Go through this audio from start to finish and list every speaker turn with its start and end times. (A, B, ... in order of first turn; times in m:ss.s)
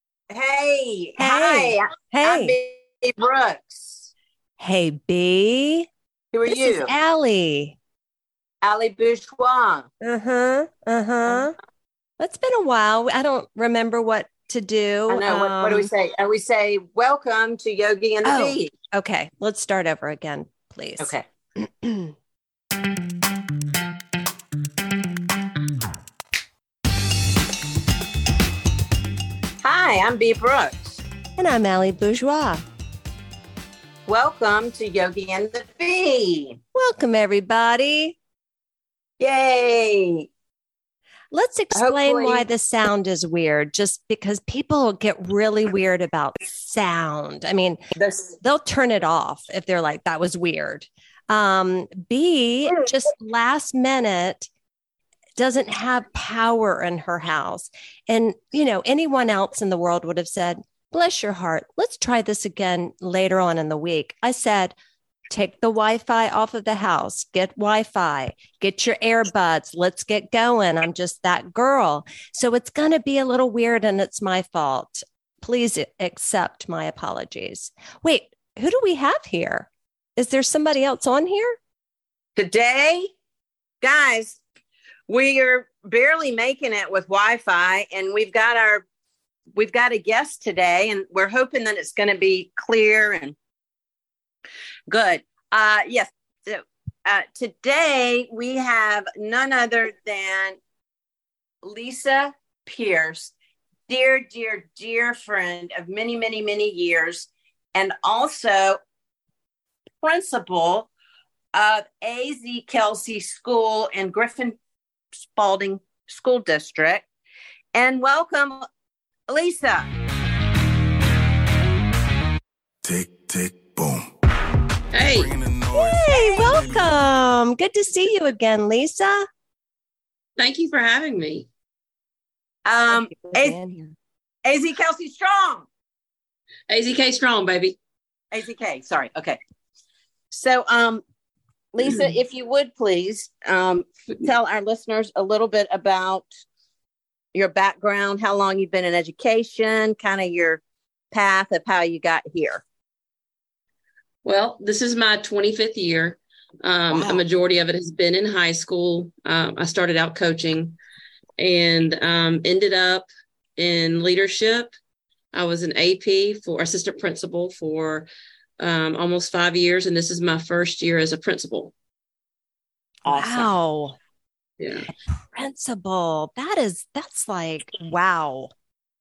0:00.3-0:04.1 A
0:01.2-0:02.5 B
0:04.6-0:05.9 B
0:06.3-0:06.9 A
0:06.4-0:07.8 B
0:08.6-0:09.9 A
0:10.0-0:11.5 B
0:12.2-0:15.9 B
0:15.1-0:18.7 A
0:18.2-0:22.1 B
0:21.0-0:21.2 A
0:29.6-0:31.0 A
0:31.4-0:32.6 B
0:34.1-0:36.6 A
0:36.7-0:38.2 B
0:39.2-0:40.3 A
0:41.3-0:47.8 B
0:41.7-0:42.4 A
0:48.0-0:48.3 A
0:48.4-0:54.5 B
0:55.4-1:04.7 B
1:05.3-1:21.6 B
1:22.4-1:23.1 A
1:23.8-1:24.4 A
1:25.1-1:28.8 A
1:29.5-1:33.4 A
1:34.9-1:40.6 A
1:41.6-1:43.3 A
1:43.9-1:48.8 A
1:50.0-1:50.9 A
1:51.5-1:54.6 A
1:55.2-1:57.0 A
1:57.7-1:58.7 A
1:59.3-1:59.8 A
2:02.8-2:04.1 C
2:04.9-2:05.4 D
2:05.0-2:06.9 C
2:05.7-2:09.2 B
2:10.4-2:11.5 D
2:12.6-2:13.6 A
2:12.9-2:13.9 B
2:14.4-2:15.7 A
2:16.7-2:17.8 D
2:18.3-2:19.4 A
2:20.3-2:21.0 A
2:21.7-2:26.3 A
2:27.3-2:32.6 A
2:34.2-2:40.7 D
2:36.9-2:37.2 A
2:41.4-2:44.7 D
2:45.3-2:48.1 D
2:48.6-2:51.7 D
2:53.0-2:53.5 A
2:53.1-2:54.0 B
2:54.6-2:54.9 D
2:55.3-2:58.5 B